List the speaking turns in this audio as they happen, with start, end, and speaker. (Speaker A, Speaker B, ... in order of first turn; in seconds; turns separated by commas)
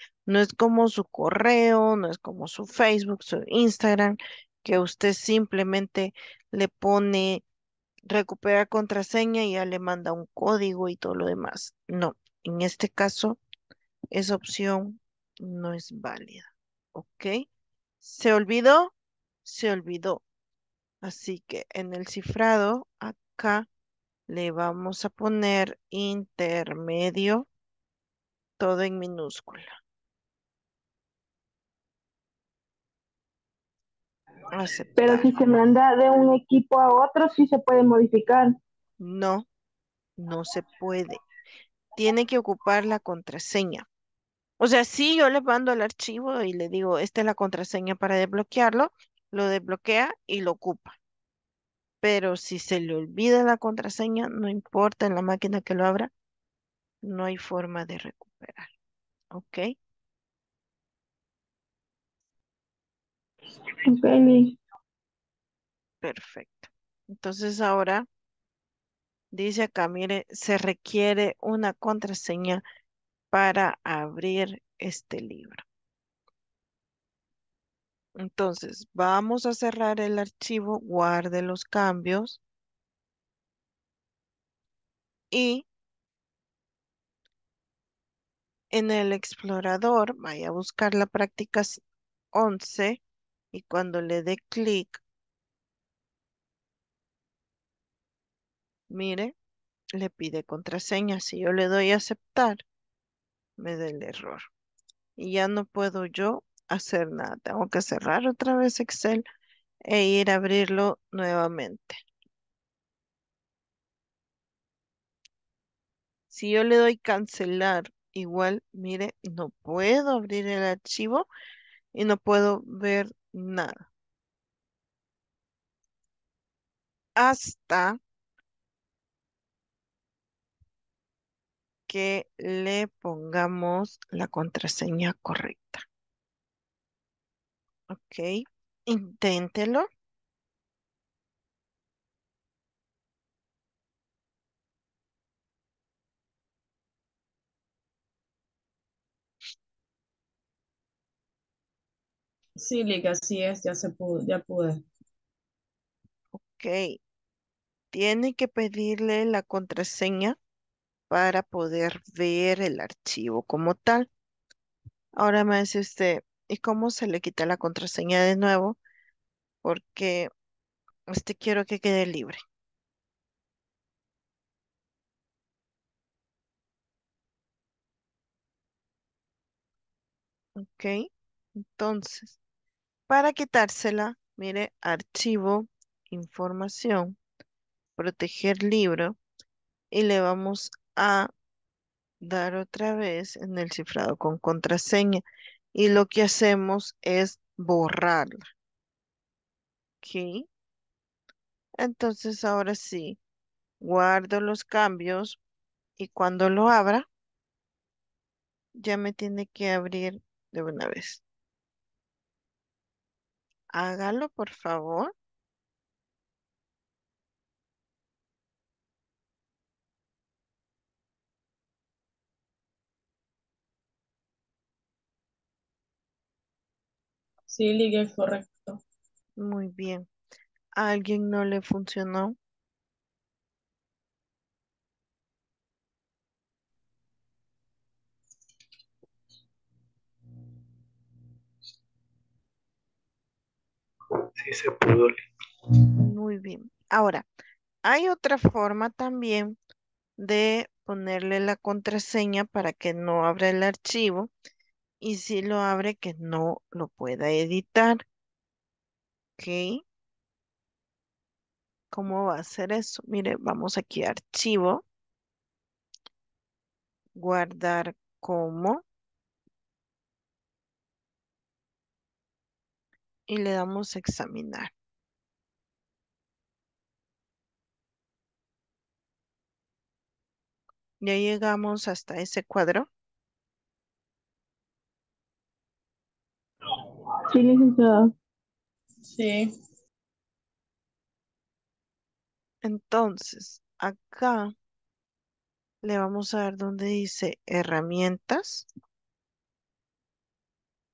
Speaker A: 0.3-7.4, Speaker A: 8.1-13.4, Speaker A: 14.1-17.4, Speaker A: 18.0-18.9, Speaker A: 19.4-20.2, Speaker A: 21.0-23.7, Speaker A: 24.3-27.5, Speaker A: 28.6-29.7, Speaker A: 34.5-35.3, Speaker B: 35.0-38.6, Speaker A: 39.0-39.5, Speaker A: 40.2-41.2, Speaker A: 42.0-43.9, Speaker A: 44.6-51.0, Speaker A: 52.0-56.1, Speaker A: 57.0-58.7, Speaker A: 59.3-59.7, Speaker B: 63.9-64.6, Speaker A: 66.0-68.1, Speaker A: 69.3-72.6, Speaker A: 73.3-75.6, Speaker A: 78.2-82.4, Speaker A: 85.3-85.7, Speaker A: 88.7-91.8, Speaker A: 92.3-93.0, Speaker A: 93.5-95.0, Speaker A: 98.9-99.3, Speaker A: 100.0-102.6, Speaker A: 103.6-104.5, Speaker A: 105.2-109.2, Speaker A: 109.8-112.0, Speaker A: 116.3-121.3, Speaker A: 121.9-123.9, Speaker A: 127.2-128.0, Speaker A: 131.9-135.8, Speaker A: 137.9-139.9, Speaker C: 152.6-154.8, Speaker A: 156.3-157.0, Speaker A: 157.9-160.4, Speaker A: 161.1-164.1, Speaker A: 165.2-168.8, Speaker A: 169.6-170.3, Speaker A: 171.1-172.4, Speaker A: 180.6-182.4, Speaker A: 183.1-187.2, Speaker A: 188.0-189.2, Speaker A: 189.9-191.3, Speaker A: 192.2-198.5, Speaker A: 200.0-200.5, Speaker A: 201.8-203.2, Speaker A: 203.8-205.4, Speaker A: 206.0-207.1, Speaker A: 208.8-211.2, Speaker A: 213.7-215.1, Speaker C: 227.5-228.8, Speaker A: 229.4-230.1, Speaker A: 230.8-232.3, Speaker A: 246.0-247.3, Speaker A: 247.8-249.6, Speaker A: 250.2-254.3, Speaker A: 255.0-258.0, Speaker A: 259.4-259.8, Speaker A: 261.9-264.9, Speaker A: 267.2-268.8, Speaker A: 273.3-274.7, Speaker A: 281.0-282.9, Speaker B: 287.3-288.1, Speaker C: 289.1-289.5, Speaker A: 292.6-294.5, Speaker A: 295.8-298.7